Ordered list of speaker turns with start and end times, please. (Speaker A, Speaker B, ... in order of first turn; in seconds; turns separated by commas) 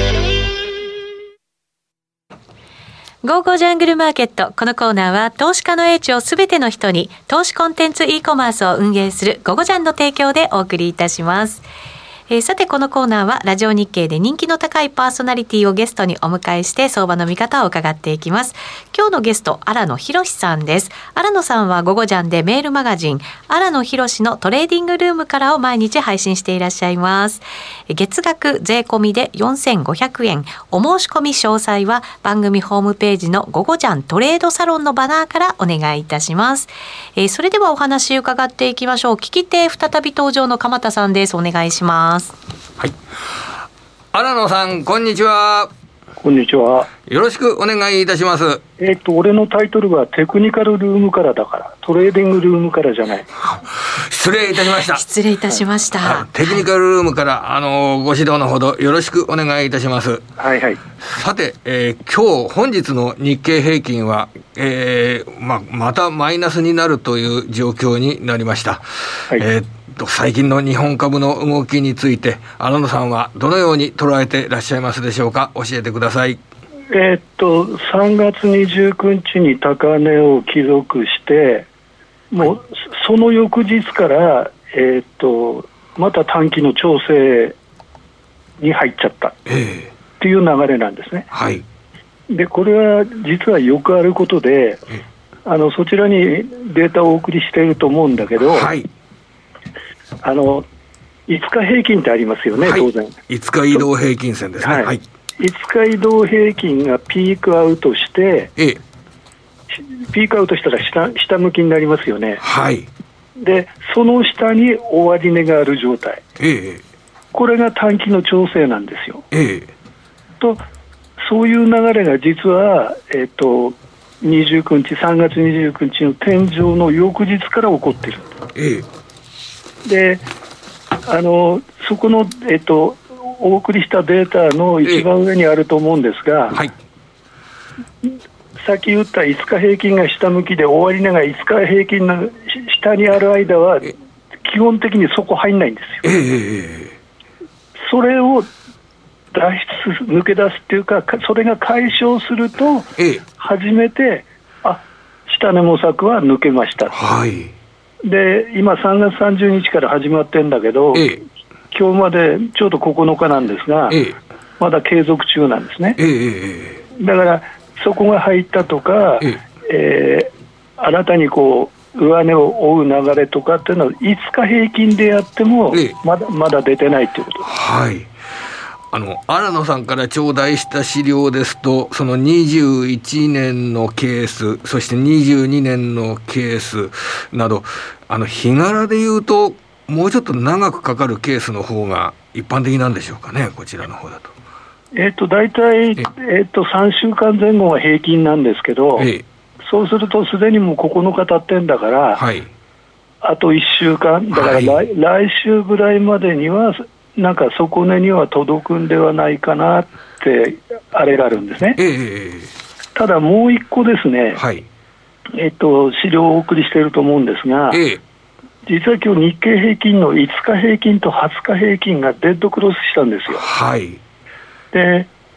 Speaker A: 3.2-11.6, Speaker A: 12.3-42.3, Speaker B: 44.1-45.7, Speaker C: 46.2-46.9, Speaker B: 47.1-48.6, Speaker C: 48.8-53.3, Speaker B: 53.8-55.0, Speaker A: 54.7-56.4, Speaker B: 56.0-60.2, Speaker C: 60.4-60.8, Speaker B: 61.0-76.4, Speaker C: 76.9-81.7, Speaker C: 82.3-87.5, Speaker C: 88.6-89.4, Speaker B: 89.5-89.9, Speaker C: 90.2-91.3, Speaker B: 91.3-91.6, Speaker C: 92.3-94.8, Speaker C: 95.4-98.7, Speaker B: 98.4-98.9, Speaker C: 100.2-100.6, Speaker C: 101.3-103.2, Speaker B: 102.6-105.0, Speaker C: 104.6-108.5, Speaker C: 109.7-112.4, Speaker B: 112.4-112.9, Speaker C: 113.4-116.2, Speaker B: 116.4-116.8, Speaker C: 117.3-119.2, Speaker B: 119.3-119.7, Speaker C: 121.2-128.2, Speaker B: 128.5-128.8, Speaker C: 129.8-130.2, Speaker C: 131.1-136.6, Speaker C: 138.6-146.2, Speaker B: 146.0-147.0, Speaker C: 147.8-148.5, Speaker C: 149.3-156.9, Speaker B: 153.0-153.2, Speaker B: 156.9-157.5, Speaker C: 158.0-161.2, Speaker B: 160.9-161.2, Speaker C: 161.7-164.0, Speaker B: 163.9-164.2, Speaker C: 164.6-166.0, Speaker B: 166.0-166.8, Speaker C: 166.9-177.5, Speaker B: 175.7-175.9, Speaker B: 177.4-178.1, Speaker B: 178.9-194.3, Speaker C: 194.9-199.1, Speaker B: 199.0-199.2, Speaker C: 199.6-202.2, Speaker B: 202.1-202.5, Speaker C: 203.2-211.8, Speaker B: 204.3-204.8, Speaker B: 211.8-212.5, Speaker C: 212.9-214.4, Speaker B: 214.3-214.7, Speaker C: 215.3-217.8, Speaker B: 217.7-218.0, Speaker C: 218.7-223.4, Speaker B: 223.3-224.0, Speaker C: 224.7-225.1